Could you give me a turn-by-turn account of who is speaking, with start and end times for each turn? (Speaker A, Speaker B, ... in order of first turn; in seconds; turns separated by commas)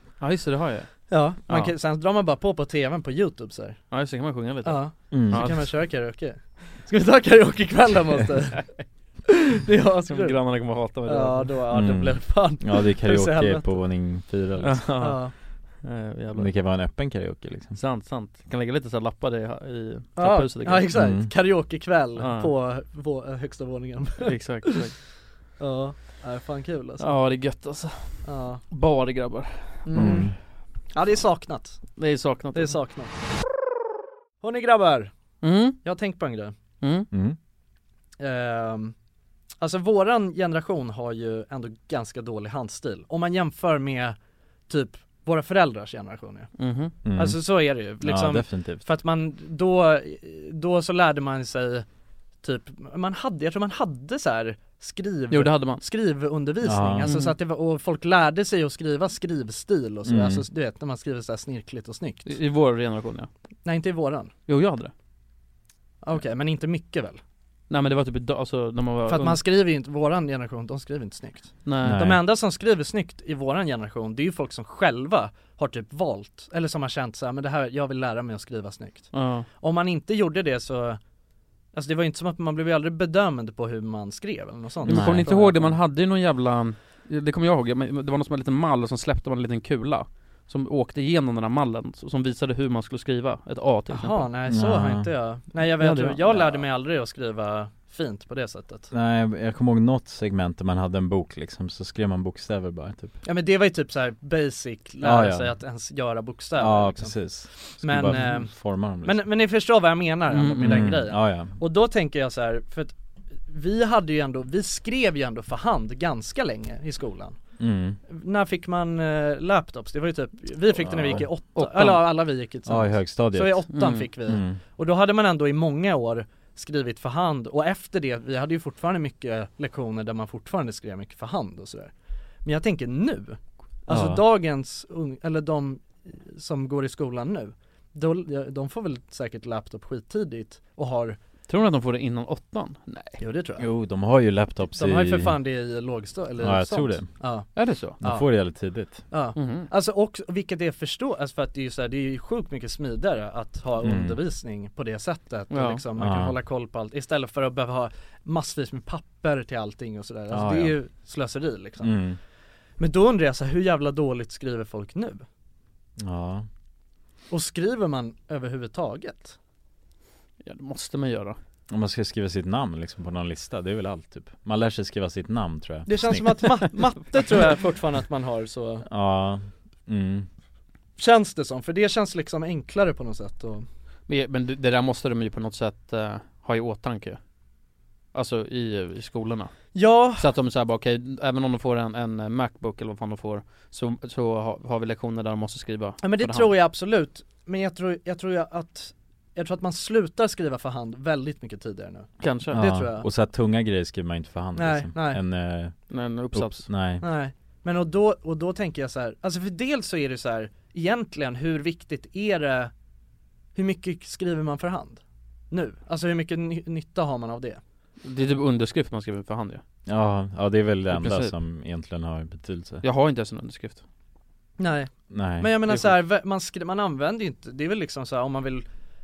Speaker A: 0.2-1.0, Speaker B: 1.1-3.8, Speaker A: 1.5-1.7, Speaker A: 3.9-5.7, Speaker B: 4.6-8.7, Speaker C: 5.1-5.6, Speaker B: 9.3-13.9, Speaker A: 10.1-11.6, Speaker C: 11.7-14.9, Speaker A: 14.6-15.3, Speaker B: 15.0-15.3, Speaker A: 15.8-16.5, Speaker C: 16.3-17.8, Speaker A: 17.8-20.9, Speaker B: 20.2-24.9, Speaker C: 20.9-21.3, Speaker A: 22.2-22.5, Speaker A: 24.2-24.9, Speaker B: 25.6-27.4, Speaker A: 27.0-30.3, Speaker B: 28.2-28.6, Speaker B: 29.9-30.4, Speaker C: 29.9-30.4, Speaker B: 30.9-32.0, Speaker A: 32.0-32.8, Speaker B: 32.5-33.1, Speaker B: 34.4-35.1, Speaker A: 35.4-35.8, Speaker B: 35.8-36.5, Speaker A: 36.8-37.1, Speaker C: 37.1-37.4, Speaker B: 38.2-38.9, Speaker B: 39.6-44.2, Speaker B: 44.7-46.5, Speaker A: 46.6-47.0, Speaker C: 47.0-48.9, Speaker B: 47.1-51.9, Speaker B: 52.4-62.4, Speaker A: 55.3-55.8, Speaker C: 56.6-57.1, Speaker A: 57.0-57.4, Speaker C: 60.0-60.5, Speaker A: 62.3-63.3, Speaker B: 63.6-64.3, Speaker A: 64.5-64.9, Speaker B: 66.0-67.2, Speaker A: 67.7-69.4, Speaker B: 69.1-81.0, Speaker A: 71.7-72.0, Speaker C: 71.8-72.2, Speaker A: 79.1-79.5, Speaker B: 81.7-85.8, Speaker C: 84.8-85.3, Speaker A: 84.8-94.3, Speaker B: 93.9-98.9, Speaker C: 94.5-95.1, Speaker A: 95.6-96.5, Speaker C: 98.9-103.2, Speaker B: 103.2-112.9, Speaker C: 105.0-105.6, Speaker C: 106.6-109.3, Speaker A: 110.3-110.8, Speaker C: 110.5-111.6, Speaker B: 113.5-117.4, Speaker C: 117.6-118.0, Speaker B: 118.1-131.9, Speaker C: 120.8-121.3, Speaker A: 121.5-122.0, Speaker C: 122.7-124.6, Speaker A: 123.7-124.1, Speaker B: 132.4-141.2, Speaker C: 133.9-134.2, Speaker A: 141.5-143.2, Speaker B: 143.2-143.7, Speaker C: 143.6-145.4, Speaker B: 144.7-162.0, Speaker C: 146.4-147.1, Speaker A: 147.6-148.0, Speaker C: 148.0-149.1, Speaker A: 149.4-149.7, Speaker C: 153.8-154.2, Speaker A: 155.5-155.8, Speaker C: 156.0-156.3, Speaker C: 160.3-160.8, Speaker C: 161.8-162.2, Speaker B: 162.8-165.2, Speaker C: 166.0-166.5, Speaker B: 167.3-169.4, Speaker A: 170.4-171.4, Speaker C: 171.7-176.7, Speaker B: 175.9-178.9, Speaker C: 178.8-180.3, Speaker B: 181.0-183.7, Speaker A: 184.1-187.2, Speaker A: 188.1-196.5, Speaker B: 189.7-190.3, Speaker B: 196.0-203.1, Speaker A: 202.2-202.7, Speaker C: 202.5-207.1, Speaker B: 204.6-205.2, Speaker A: 205.9-206.7, Speaker B: 207.0-212.7, Speaker B: 213.6-217.6, Speaker A: 218.0-219.6, Speaker C: 219.9-222.8, Speaker A: 220.9-221.3, Speaker A: 222.8-223.8, Speaker B: 224.6-228.7, Speaker C: 225.1-225.8